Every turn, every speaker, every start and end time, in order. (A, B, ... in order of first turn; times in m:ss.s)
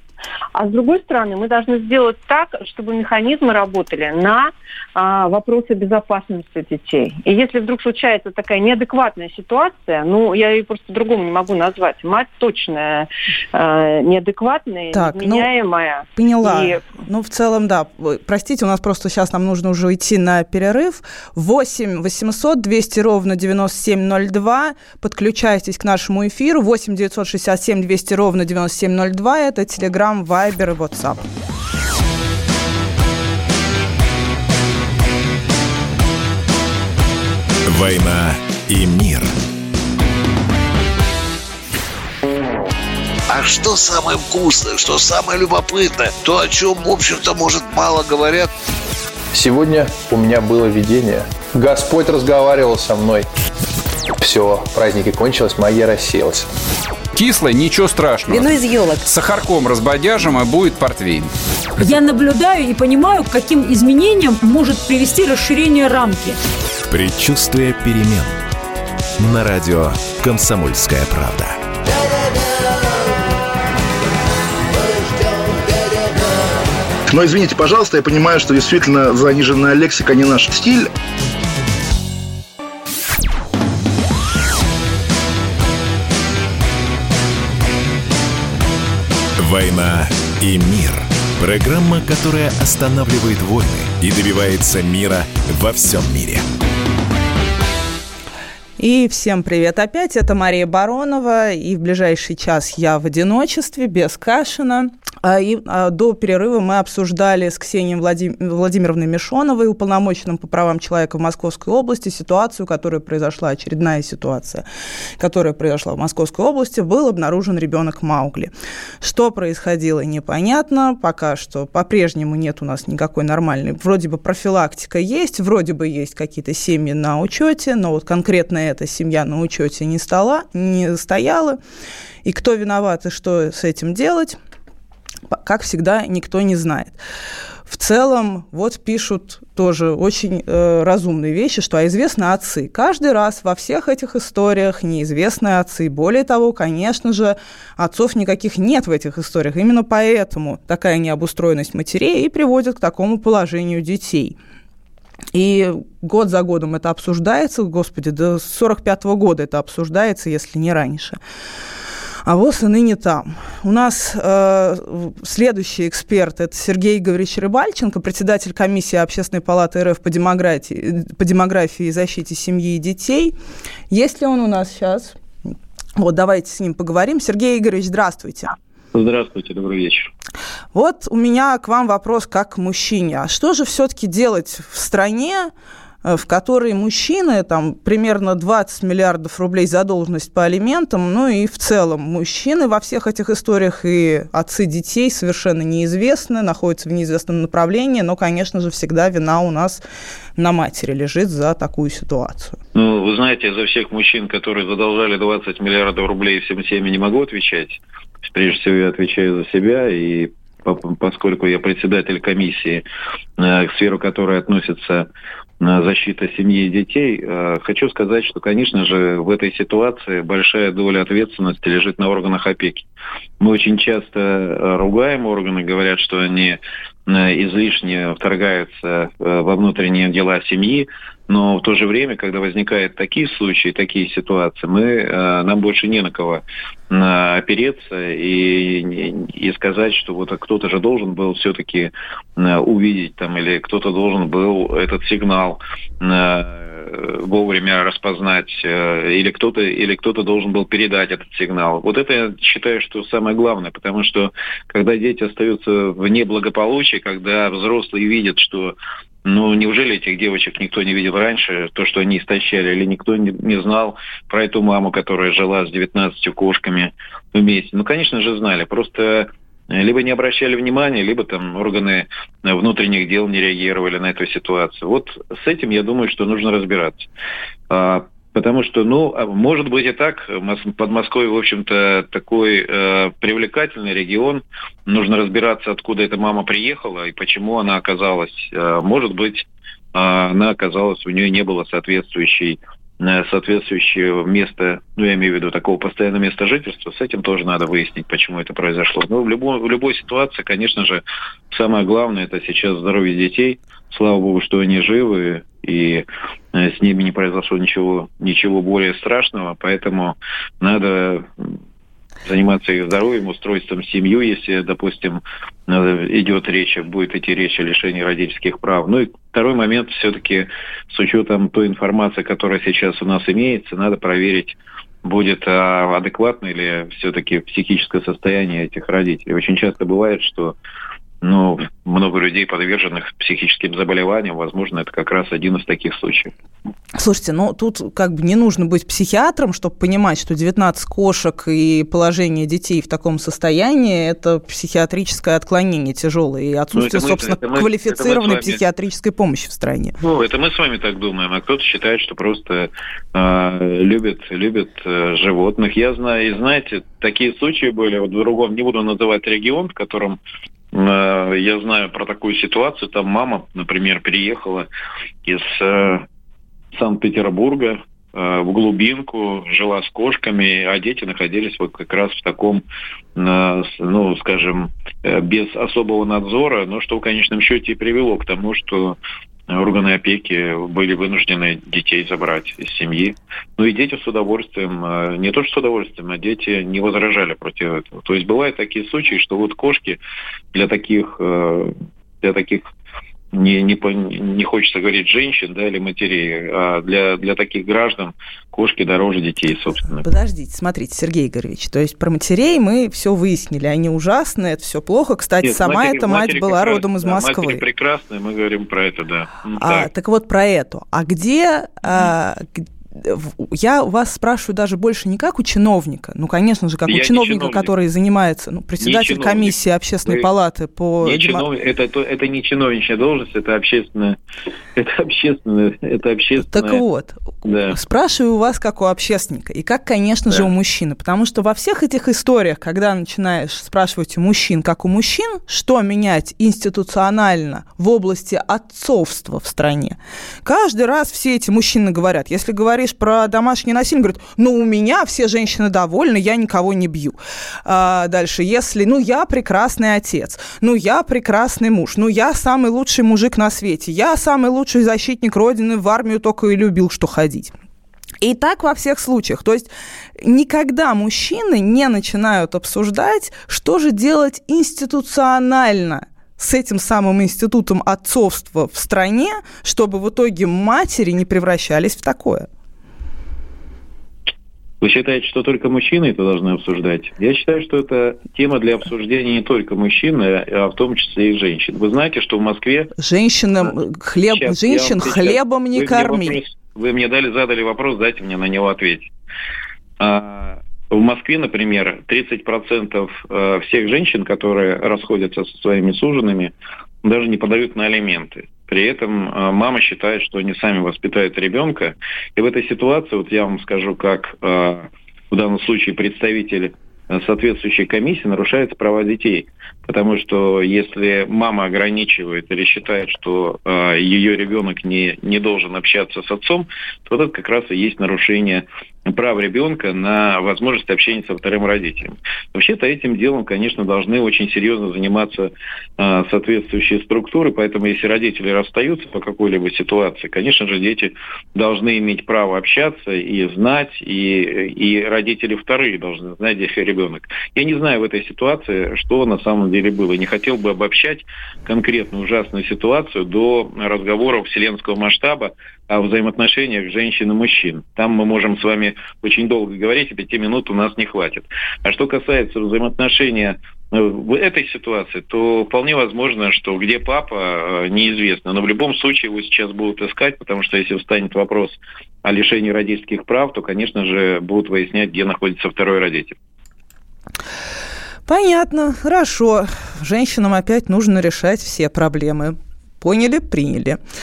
0:00.6-0:16.9 A
0:14.9-0:15.5 B
0:16.2-0:31.2 B
0:37.7-0:39.3 C
0:43.3-0:48.5 D
0:49.3-0:53.3 E
0:54.2-0:56.5 E
0:57.1-1:01.3 F
0:58.3-0:59.0 G
1:01.8-1:06.4 G
1:06.9-1:08.4 C
1:09.2-1:11.6 C
1:17.1-1:20.9 H
1:29.4-1:36.4 C
1:38.8-1:54.6 B
1:55.2-2:11.6 B
2:12.2-2:14.4 B
2:15.3-2:17.0 B
2:17.7-2:34.4 B
2:35.3-2:41.2 B
2:42.2-2:53.4 B
2:53.9-2:55.2 B
2:56.0-2:58.6 B
2:58.9-3:00.1 I
3:00.7-3:05.5 B
3:06.0-3:19.8 B
3:20.4-3:22.6 B
3:22.8-3:32.8 I
3:33.4-3:35.1 I
3:35.6-3:42.8 I
3:43.4-4:37.1 I
4:37.7-5:11.6 I
5:12.2-5:30.6 I
5:31.2-5:36.3 I
5:37.0-5:50.0 B
5:46.7-5:48.6 I
5:50.0-6:00.2 I
6:00.7-6:04.7 I
6:05.2-6:06.1 I
6:06.7-6:12.6 I
6:13.2-6:19.0 I
6:19.5-6:30.0 I
6:30.5-6:32.6 I
6:33.3-6:40.0 I
6:40.0-6:47.6 B
6:45.4-6:49.9 I
6:49.6-7:01.4 B
6:51.8-6:52.1 I
6:56.9-6:57.7 I
6:58.8-6:59.6 I
7:01.0-7:04.2 I
7:04.8-7:06.8 I
7:06.5-7:07.2 B
7:07.4-7:07.8 I
7:07.7-7:37.5 B
7:38.2-7:52.5 B
7:54.8-8:02.9 I
8:03.0-8:06.4 B
8:04.3-8:09.1 I
8:10.0-8:16.5 I
8:17.0-9:26.4 I
9:28.3-9:34.0 B